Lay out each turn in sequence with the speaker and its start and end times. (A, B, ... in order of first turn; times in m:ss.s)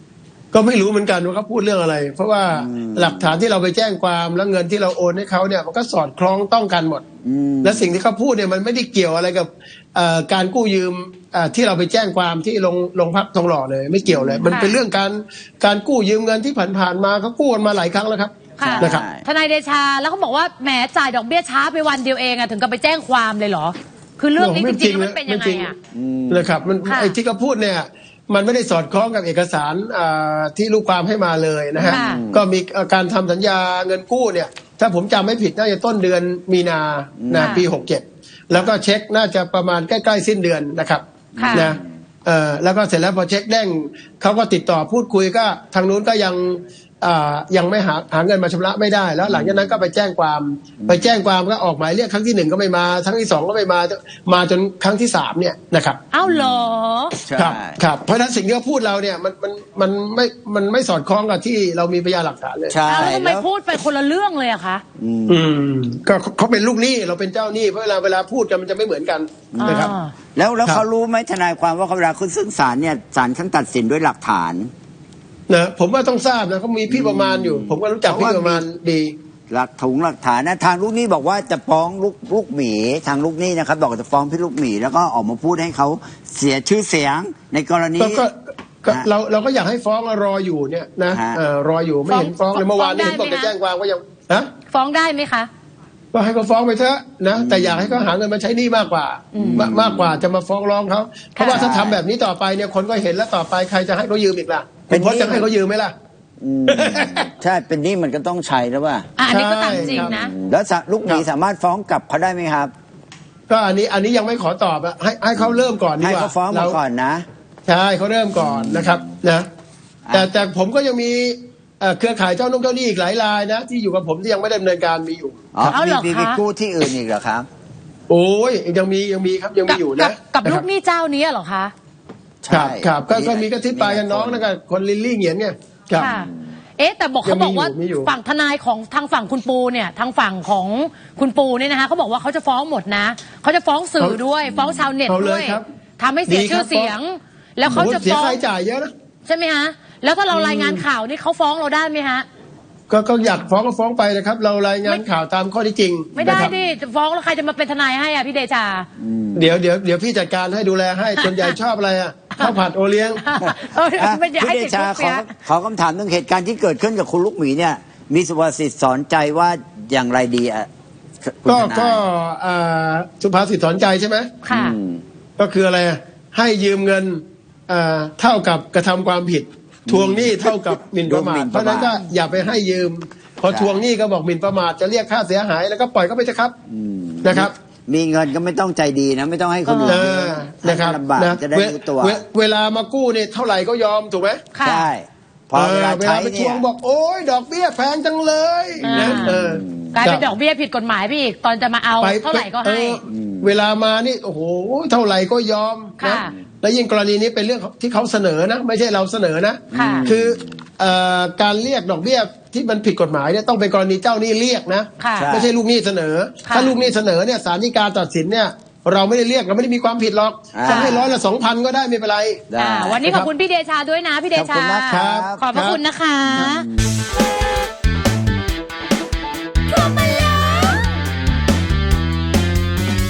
0:00.5-0:07.0 A
0:02.5-0:03.4 B
0:07.2-0:08.0 B
0:07.6-0:19.0 A
0:14.0-0:14.5 B
0:14.5-0:14.8 C
0:18.6-0:25.8 C
0:18.6-0:19.2 B
0:24.4-0:25.7 A
0:25.9-0:26.5 B
0:26.3-0:56.0 A
0:26.8-0:27.2 C
0:31.7-0:32.4 B
0:31.9-0:32.2 C
0:37.2-0:37.6 B
0:37.4-0:37.6 C
0:41.4-0:41.8 B
0:41.4-0:41.7 C
0:49.2-0:49.8 B
0:50.8-0:51.1 B
0:56.1-0:57.2 C
0:56.2-0:57.8 B
0:57.4-1:03.1 A
1:02.7-1:03.4 B
1:02.9-1:04.8 C
1:05.0-1:05.5 B
1:05.3-1:09.9 A
1:09.5-1:14.7 B
1:09.6-1:10.1 C
1:15.5-1:19.1 A
1:16.9-1:18.6 B
1:19.5-1:28.2 B
1:28.0-1:34.5 A
1:31.1-1:31.4 B
1:32.1-1:33.5 C
1:34.7-1:35.5 C
1:36.1-1:45.9 A
1:37.3-1:38.1 B
1:39.3-1:39.7 C
1:39.4-1:40.2 B
1:41.4-1:41.7 C
1:41.4-1:42.0 B
1:44.9-1:45.5 B
1:46.4-1:49.1 B
1:46.7-1:47.3 A
1:49.2-1:50.3 C
1:49.3-1:50.1 A
1:49.7-1:52.7 B
1:53.5-1:56.8 A
1:55.4-1:57.2 B
1:57.7-1:59.5 A
1:58.4-1:59.1 B
2:00.1-2:05.6 A
2:05.6-2:07.5 B
2:05.7-2:06.4 C
2:08.1-2:10.6 A
2:09.7-2:11.7 C
2:12.4-2:14.5 B
2:12.5-2:16.1 A
2:15.9-2:28.4 C
2:16.0-2:16.4 B
2:17.2-2:18.1 A
2:24.4-2:24.9 B
2:25.1-2:25.6 A
2:26.3-2:26.9 A
2:27.7-2:28.9 A
2:29.3-2:32.3 C
2:30.3-2:30.8 A
2:32.9-2:36.5 A
2:36.2-2:38.9 C
2:36.2-2:36.7 B
2:39.0-2:39.5 B
2:39.3-2:43.2 A
2:41.2-2:41.6 C
2:43.2-2:45.3 C
2:43.4-2:50.7 B
2:51.2-2:52.0 B
2:51.5-2:54.3 A
2:54.4-2:54.8 C
2:54.5-2:55.0 B
2:55.4-3:06.5 A
2:59.9-3:02.7 B
3:01.9-3:02.1 C
3:03.5-3:03.8 B
3:06.7-3:12.2 B
3:07.2-3:07.5 A
3:09.7-3:10.1 C
3:09.9-3:14.4 A
3:14.5-3:14.9 C
3:14.6-3:16.6 B
3:15.6-3:20.3 A
3:18.8-3:20.1 B
3:18.8-3:19.4 C
3:19.9-3:23.0 C
3:22.0-3:42.5 A
3:23.1-3:23.5 B
3:26.0-3:26.3 C
3:29.7-3:30.6 B
3:29.7-3:30.1 C
3:35.0-3:35.3 C
3:35.2-3:35.5 B
3:36.4-3:36.7 C
3:40.5-3:41.1 B
3:40.6-3:41.0 C
3:42.5-3:43.0 B
3:42.6-3:46.7 C
3:43.0-3:43.3 A
3:44.3-3:45.4 B
3:44.9-3:45.8 A
3:46.3-3:46.9 B
3:49.7-3:51.0 C